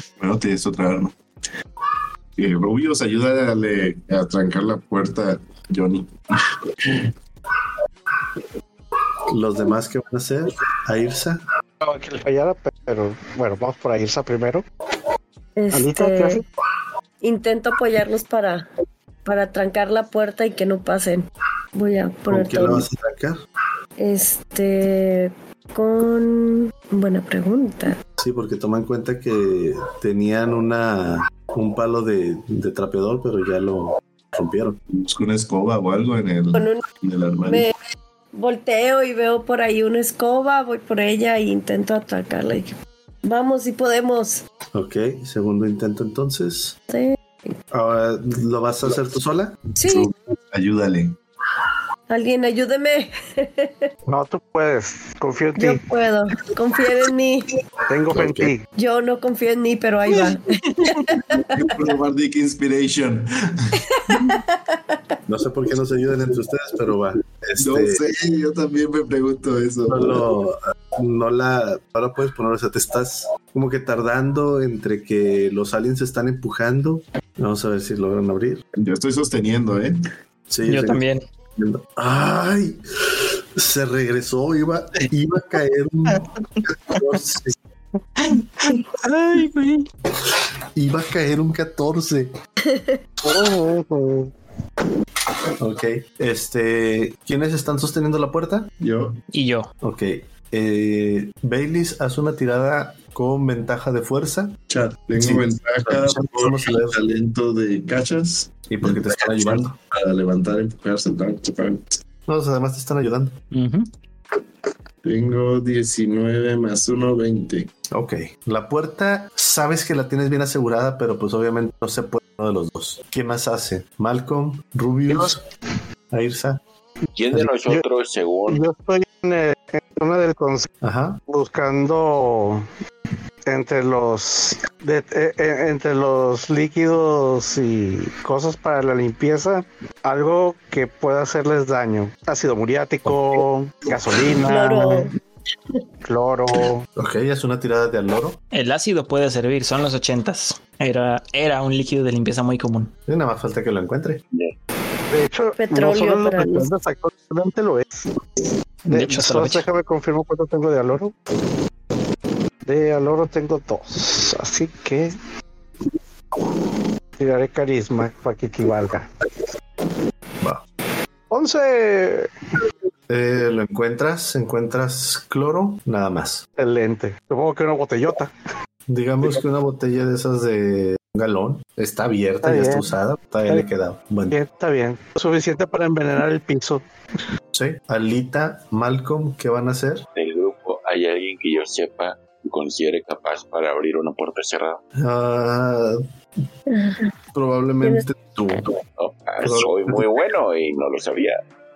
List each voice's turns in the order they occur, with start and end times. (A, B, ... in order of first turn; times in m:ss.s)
0:00.2-0:01.2 A
0:02.4-0:07.1 A
0:09.3-0:11.4 B
0:11.8-0:14.6 C
0:15.6-0:16.4 D
0:15.7-0:16.4 C
0:17.2-0:18.7 D
0:19.2-0:22.9 D
0:22.3-0:23.4 B
0:24.0-0:28.0 D
0:28.2-0:34.8 B
0:34.9-0:37.7 A
0:36.5-0:36.8 D
0:37.5-0:37.7 D
0:38.3-0:44.4 D
0:44.7-0:46.7 B
0:46.9-0:47.5 D
0:47.7-0:49.6 B
0:49.8-0:50.1 D
0:49.8-0:51.2 A
0:52.1-0:53.9 D
0:54.1-0:55.8 C
0:55.6-0:57.5 D
0:57.9-0:58.7 C
0:58.1-0:58.5 B
0:58.8-1:01.8 D
1:01.2-1:04.4 A
1:04.1-1:05.0 D
1:05.3-1:08.0 B
1:07.6-1:10.3 A
1:09.9-1:18.6 B
1:18.8-1:20.0 A
1:20.5-1:21.0 B
1:20.7-1:21.2 E
1:21.6-1:22.8 B
1:23.6-1:27.6 B
1:28.2-1:29.9 E
1:30.8-1:32.3 B
1:32.7-1:33.0 D
1:33.2-1:34.3 C
1:35.6-1:38.7 B
1:38.8-1:39.2 A
1:39.3-1:39.7 E
1:39.8-1:44.6 B
1:44.7-1:52.0 A
1:45.2-1:47.0 B
1:48.7-1:49.7 B
1:52.3-1:53.4 B
1:53.5-1:53.9 E
1:55.0-1:57.7 A
1:57.9-2:05.4 B
2:06.1-2:06.6 B
2:07.2-2:08.7 F
2:08.5-2:10.7 C
2:10.8-2:11.2 B
2:11.3-2:12.7 C
2:13.5-2:25.1 C
2:24.5-2:25.1 D
2:26.0-2:26.8 C
2:27.0-2:28.4 B
2:28.5-2:32.9 E
2:33.1-2:34.2 B
2:35.1-2:38.2 C
2:35.6-2:36.7 D
2:38.9-2:41.2 C
2:38.9-2:39.7 E
2:42.6-2:45.2 C
2:47.2-2:49.1 C
2:51.3-2:52.3 C
2:53.1-2:56.4 B
2:56.6-2:58.3 C
2:58.9-3:04.4 B
3:02.4-3:02.9 C
3:04.3-3:06.8 C
3:07.5-3:10.1 B
3:10.2-3:14.8 F
3:15.0-3:16.0 B
3:16.7-3:17.1 D
3:17.3-3:18.8 B
3:19.0-3:21.4 F
3:19.4-3:20.2 B